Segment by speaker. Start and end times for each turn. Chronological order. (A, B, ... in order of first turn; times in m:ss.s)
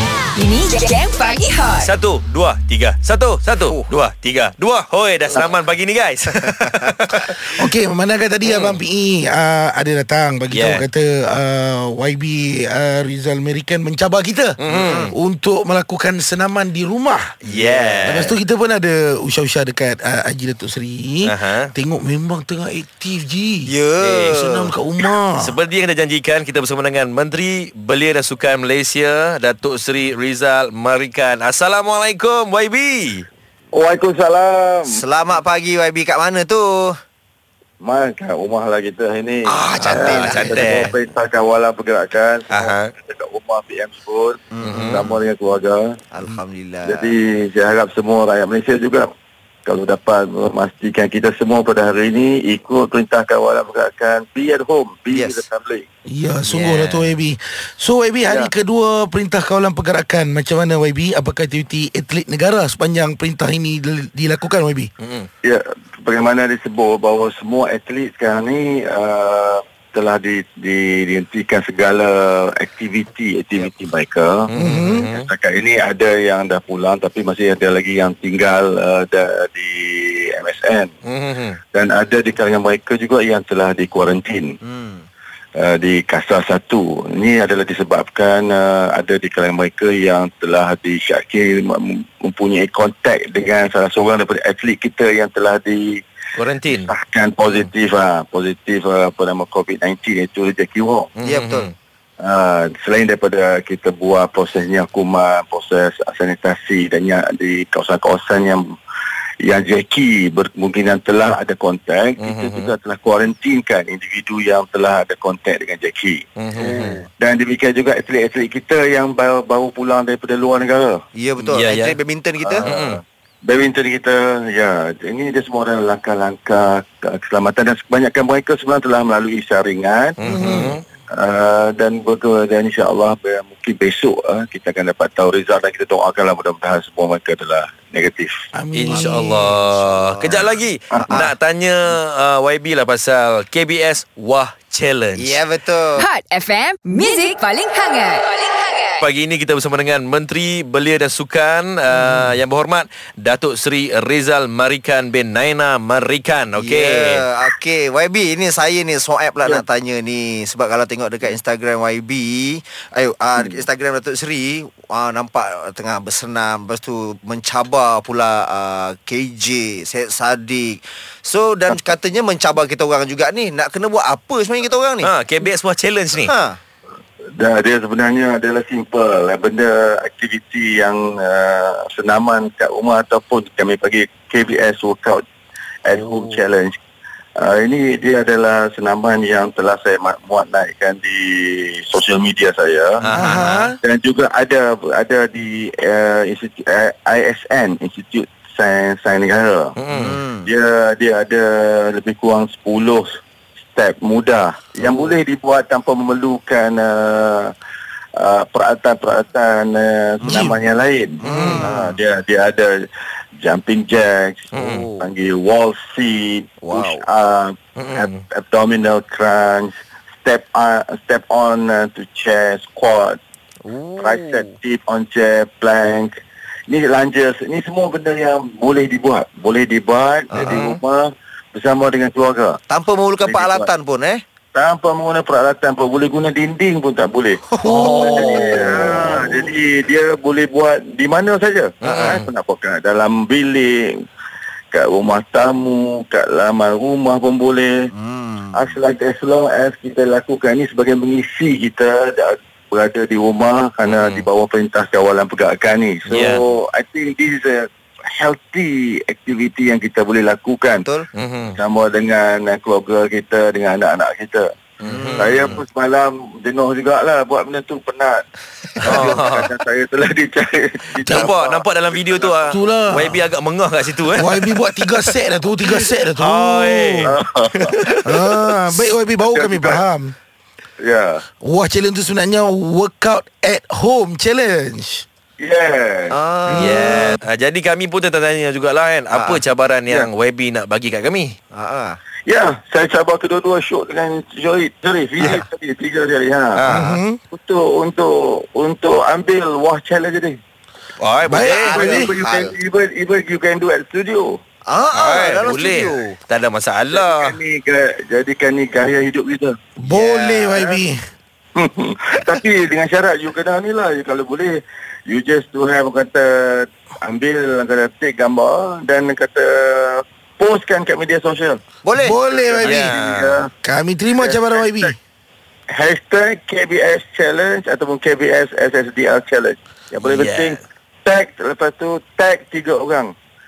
0:00.3-0:01.9 A
0:01.8-0:07.5 B
0:07.5-0:14.6 C
0:08.4-0:08.8 B
0:10.5-0:10.8 B
0:14.6-0:15.1 B
0:14.7-0:15.1 D
0:15.1-0:17.2 C
0:17.4-0:18.4 B
0:17.5-0:18.2 D
0:18.0-0:23.7 C
0:21.2-0:21.7 B
0:23.7-0:24.7 D
0:24.0-0:24.4 B
0:24.3-0:25.6 C
0:25.4-0:33.3 B
0:33.7-0:35.0 E
0:34.9-0:36.9 D
0:37.8-0:45.8 E
0:39.4-0:40.9 D
0:39.9-0:41.0 B
0:42.5-0:42.9 B
0:44.5-0:45.2 D
0:44.7-0:45.0 B
0:46.1-0:47.1 D
0:46.8-0:49.1 E
0:49.6-0:55.8 E
0:55.1-0:55.4 D
0:56.1-1:04.9 C
0:56.4-0:57.1 D
1:05.0-1:05.3 B
1:05.4-1:14.5 E
1:14.5-1:15.3 B
1:14.6-1:15.1 C
1:15.2-1:20.9 E
1:21.1-1:21.6 B
1:21.7-1:24.5 E
1:24.6-1:25.0 D
1:25.6-1:36.0 E
1:36.4-1:36.9 B
1:36.7-1:41.1 E
1:41.2-1:41.7 B
1:41.2-1:41.7 D
1:42.2-1:48.7 E
1:49.4-1:56.2 E
1:52.2-1:52.7 B
1:56.4-1:57.0 B
1:56.6-1:57.1 D
1:57.2-2:01.0 E
2:01.1-2:02.7 D
2:01.4-2:01.9 B
2:02.4-2:10.2 E
2:02.6-2:03.0 B
2:10.2-2:10.8 B
2:10.4-2:10.7 D
2:11.1-2:18.4 E
2:18.5-2:19.6 C
2:18.7-2:25.4 B
2:19.6-2:20.4 D
2:21.0-2:21.3 D
2:25.2-2:26.0 D
2:26.0-2:29.0 A
2:29.0-2:37.2 B
2:31.9-2:32.3 D
2:36.6-2:55.1 D
2:55.0-2:56.3 B
2:56.2-2:56.6 D
2:57.3-3:05.2 E
3:05.8-3:06.8 E
3:07.4-3:13.1 E
3:13.0-3:13.7 B
3:13.1-3:13.7 C
3:13.8-3:19.7 E
3:19.8-3:20.1 B
3:19.9-3:20.5 D
3:20.4-3:23.1 E
3:23.7-3:27.5 E
3:24.8-3:25.2 D
3:28.2-3:32.8 E
3:30.2-3:30.5 D
3:30.2-3:30.6 C
3:31.2-3:32.0 D
3:31.3-3:31.7 B
3:33.4-3:43.2 E
3:34.5-3:34.8 B
3:34.6-3:35.1 D
3:36.6-3:37.0 D
3:37.8-3:38.2 B
3:43.6-3:44.6 D
3:44.0-3:46.1 E
3:46.7-3:52.6 E
3:50.3-3:50.8 D
3:50.4-3:50.8 B
3:52.7-3:54.2 D
3:53.2-3:53.7 E
3:54.5-4:03.8 E
3:57.5-3:59.1 C
4:01.8-4:02.3 B
4:01.8-4:02.2 D
4:04.7-4:07.7 E
4:07.9-4:08.8 D
4:08.5-4:17.6 E
4:13.8-4:14.2 B
4:16.0-4:16.4 B
4:18.2-4:20.8 E
4:21.2-4:21.6 B
4:21.6-4:24.5 E
4:24.8-4:25.6 B
4:24.8-4:25.6 D
4:25.2-4:28.2 E
4:28.8-4:29.2 D
4:28.8-4:29.5 B
4:28.8-4:32.5 E
4:31.0-4:35.2 B
4:31.0-4:31.3 C
4:32.5-4:33.2 C
4:34.1-4:37.1 C
4:36.2-4:38.0 B
4:37.0-4:38.0 E
4:38.0-4:40.1 C
4:39.3-4:39.8 E
4:40.8-4:41.2 E
4:41.4-4:45.0 C
4:45.4-4:46.2 E
4:46.1-4:47.0 D
4:46.5-4:51.3 B
4:46.6-4:47.0 C
4:49.1-4:49.4 D
4:51.5-4:52.0 D
4:52.3-4:56.6 E
4:55.2-4:55.5 D
4:56.6-4:57.0 B
4:56.7-4:57.2 C
4:57.3-5:00.4 E
5:01.0-5:01.9 B
5:01.2-5:02.2 C
5:01.4-5:04.4 E
5:01.5-5:02.6 D
5:04.7-5:06.2 D
5:05.0-5:07.4 B
5:06.9-5:09.5 E
5:09.8-5:11.0 C
5:09.9-5:10.6 D
5:11.6-5:21.6 E
5:21.8-5:22.8 D
5:21.9-5:22.9 C
5:22.2-5:23.5 E
5:22.6-5:23.4 B
5:23.6-5:24.9 C
5:24.2-5:24.9 E
5:25.7-5:33.1 E
5:30.0-5:30.6 B